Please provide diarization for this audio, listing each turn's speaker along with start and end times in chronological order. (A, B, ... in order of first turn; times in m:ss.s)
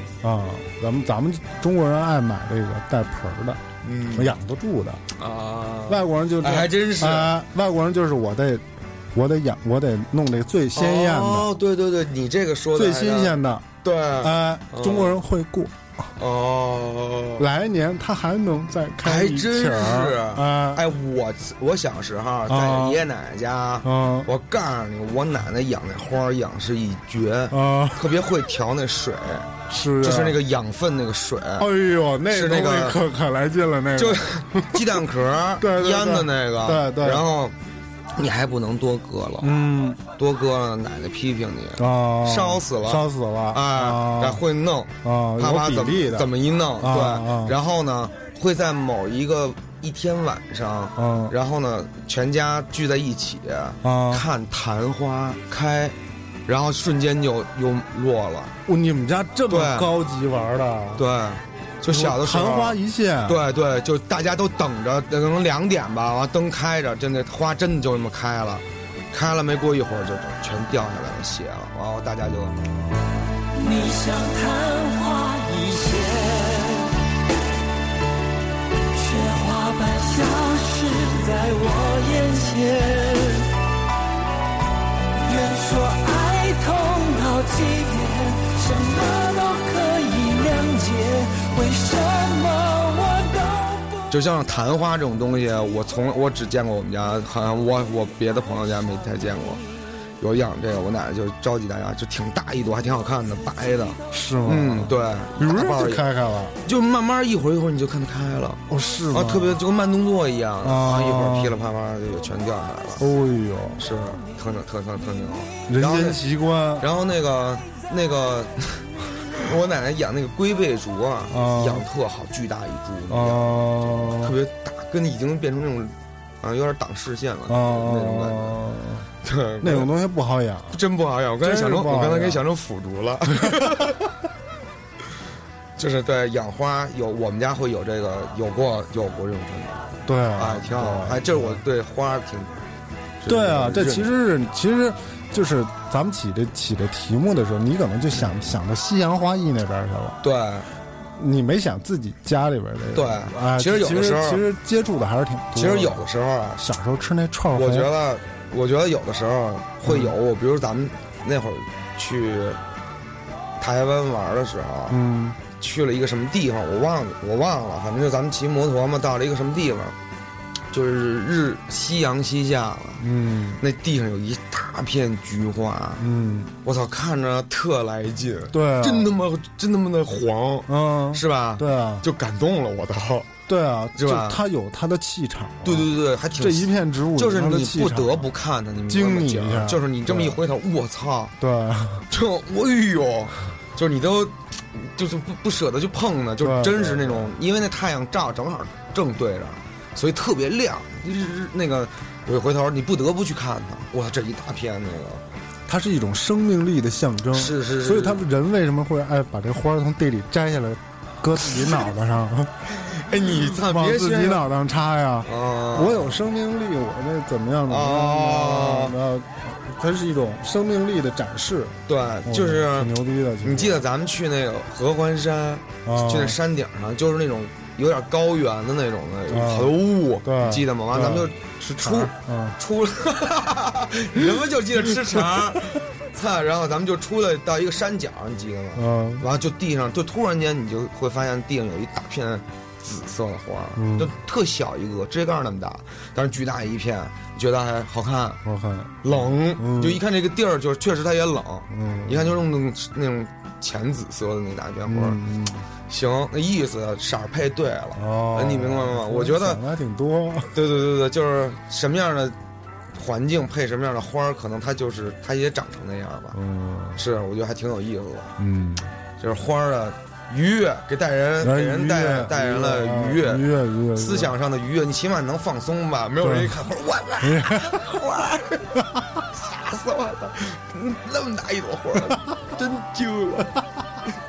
0:00.2-0:05.0 A
0:03.8-0:04.3 B
0:05.1-0:07.4 B
0:05.9-0:11.5 A
0:10.7-0:15.2 B
0:12.7-0:13.7 A
0:14.2-0:15.7 A
0:16.2-0:17.4 B
0:17.4-0:20.8 A
0:19.0-0:31.7 B
0:22.5-0:23.0 A
0:23.8-0:24.3 A
0:27.5-0:28.1 A
0:29.7-0:30.4 A
0:31.6-0:34.9 A
0:32.3-0:33.0 B
0:33.9-0:37.6 B
0:35.6-0:37.2 A
0:38.1-0:39.6 B
0:39.4-0:40.0 A
0:40.2-0:58.5 B
0:41.8-0:44.4 A
0:45.0-0:47.6 A
0:51.0-0:51.3 A
0:53.8-0:54.2 A
0:58.6-1:01.0 A
0:59.5-0:59.9 B
1:01.0-1:12.6 B
1:01.8-1:03.4 A
1:13.6-1:16.6 C
1:19.0-1:23.3 C
1:25.2-1:33.8 C
1:34.1-1:39.6 B
1:40.2-1:46.1 B
1:44.1-1:46.6 A
1:46.6-1:53.1 B
1:48.7-1:49.6 A
1:50.6-1:51.5 A
1:53.0-1:53.8 A
1:53.8-1:56.2 B
1:55.7-1:56.9 A
1:56.8-2:08.6 B
2:01.3-2:01.8 A
2:03.1-2:04.4 A
2:07.5-2:09.1 A
2:09.2-2:09.9 B
2:09.6-2:10.8 A
2:10.7-2:14.0 B
2:11.4-2:12.4 A
2:13.4-2:13.8 A
2:15.8-2:22.5 B
2:20.0-2:21.6 A
2:23.2-2:24.1 B
2:23.3-2:30.2 A
2:30.2-2:30.7 B
2:31.1-2:36.1 A
2:32.9-2:34.5 B
2:35.5-2:36.7 B
2:36.6-2:37.9 A
2:37.5-2:42.6 B
2:39.8-2:40.1 A
2:43.6-2:50.0 B
2:44.9-2:45.4 A
2:50.7-2:53.0 B
2:53.0-2:53.6 A
2:53.6-2:56.0 B
2:56.0-2:56.5 A
2:56.6-3:03.3 B
2:58.5-2:59.1 A
3:00.7-3:02.0 A
3:03.5-3:08.3 A
3:03.9-3:04.4 B
3:05.6-3:11.3 B
3:08.9-3:10.4 A
3:11.4-3:12.0 A
3:12.1-3:25.2 B
3:16.4-3:17.3 A
3:25.7-3:32.6 A
3:27.3-3:28.2 B
3:32.8-3:34.5 B
3:33.4-3:43.8 A
3:35.2-3:36.2 B
3:37.7-3:39.0 B
3:41.9-4:08.4 B
3:45.8-3:46.4 A
3:49.3-3:52.6 A
3:58.7-3:59.2 A
4:03.8-4:04.1 A
4:08.4-4:10.0 A
4:09.0-4:15.2 B
4:11.7-4:12.4 A
4:14.8-4:15.6 A
4:15.9-4:19.6 B
4:18.0-4:20.6 A
4:20.5-4:22.4 B
4:22.9-4:26.4 B
4:26.3-4:27.0 A
4:27.0-4:28.4 B
4:28.4-4:28.9 A
4:29.2-4:38.8 B
4:31.4-4:34.4 A
4:36.2-4:36.6 A
4:37.2-4:37.9 A
4:39.3-4:43.5 B